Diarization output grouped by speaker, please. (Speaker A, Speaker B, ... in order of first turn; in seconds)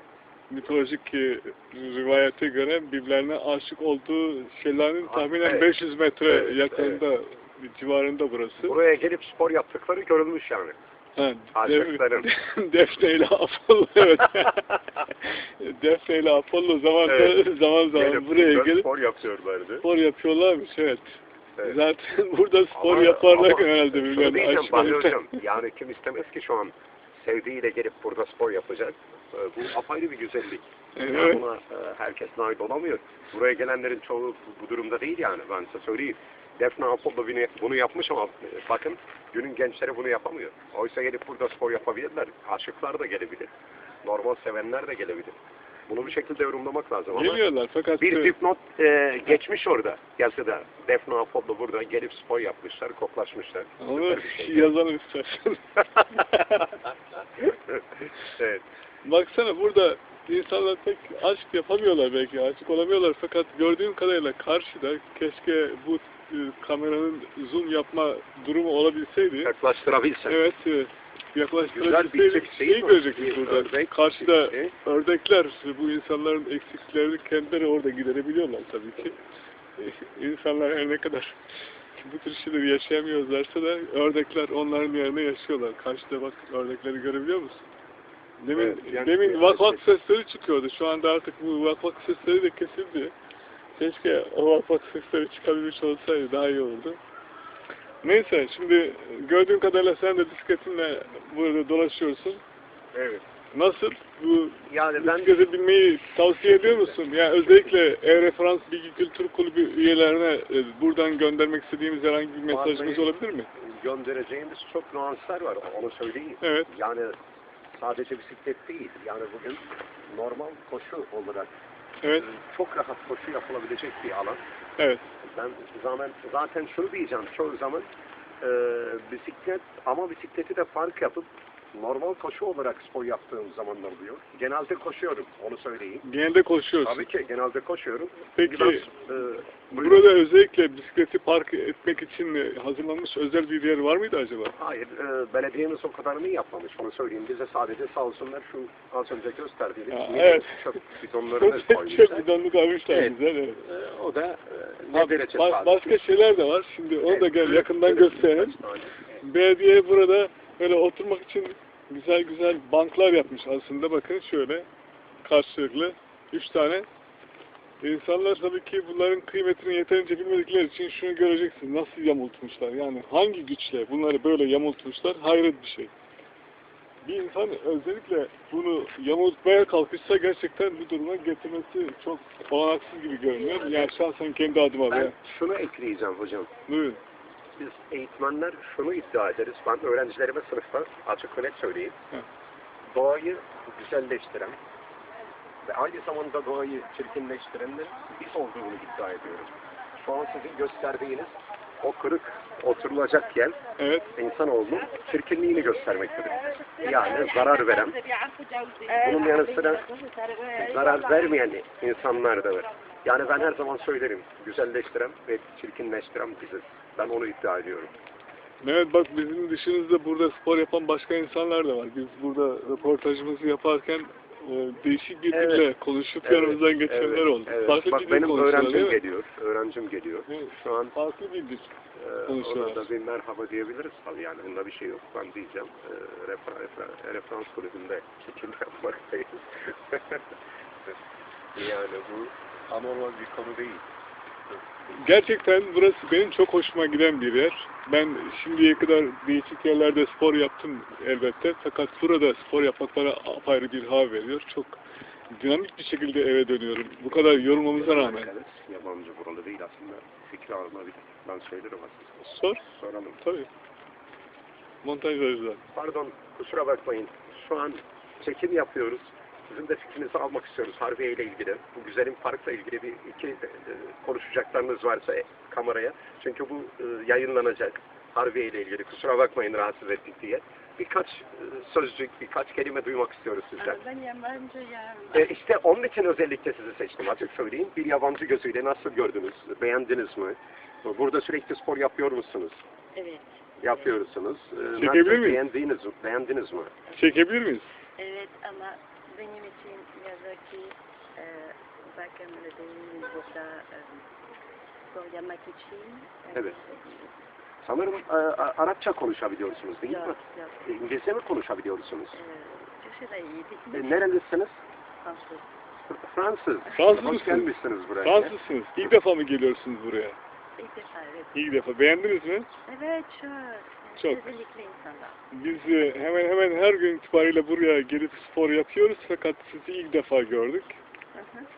Speaker A: 0.5-8.8, 11.2-18.9, 19.8-25.4, 31.0-31.4, 47.1-48.3, 53.8-56.6, 59.0-69.5, 70.3-79.2, 79.8-81.4, 82.0-87.6, 88.4-93.1, 93.8-97.0, 98.0-102.4, 103.5-113.5, 116.4-116.7, 122.0-122.3, 124.8-125.0, 136.0-137.1, 138.3-138.9, 139.7-144.6, 149.9-150.6, 151.3-153.6, 154.9-158.6, 159.2-164.7, 165.2-166.9, 167.8-175.9, 177.0-185.2, 186.7-187.0, 203.8-204.1, 218.6-229.0, 230.3-231.7, 232.3-232.9, 245.0-258.3, 262.2-262.6, 263.2-263.5, 264.8-265.6, 294.8-295.4, 296.9-297.7, 316.7-320.2, 321.3-322.5, 324.0-324.3, 325.3-330.8
Speaker B: 5.1-5.7, 6.3-7.0, 8.6-10.8, 11.6-12.3, 17.1-17.4, 17.9-19.9, 22.7-43.5, 44.0-45.4, 45.9-47.4, 48.0-54.7, 58.4-58.6, 69.4-70.4, 71.7-74.7, 88.5-89.8, 102.9-103.2, 104.7-105.4, 106.4-107.7, 112.5-117.2, 117.8-121.5, 122.1-124.4, 125.2-127.9, 128.4-136.0, 136.8-140.1, 144.6-152.3, 152.9-156.0, 157.0-159.2, 184.9-186.5, 187.6-191.9, 192.9-194.6, 195.6-203.6, 204.2-208.0, 208.9-209.9, 210.6-217.9, 225.3-225.7, 226.2-230.9, 231.9-240.2, 241.6-243.8, 257.7-263.2, 265.8-283.8, 285.1-292.6, 293.6-296.7, 307.6-312.2, 313.7-314.6, 315.9-318.4
Speaker C: 208.3-209.1, 209.8-210.6, 283.6-285.3, 292.9-293.3, 298.0-304.0, 304.9-307.1, 309.9-310.6, 312.1-314.1, 315.0-315.5, 320.6-321.4, 322.7-325.2, 331.1-331.5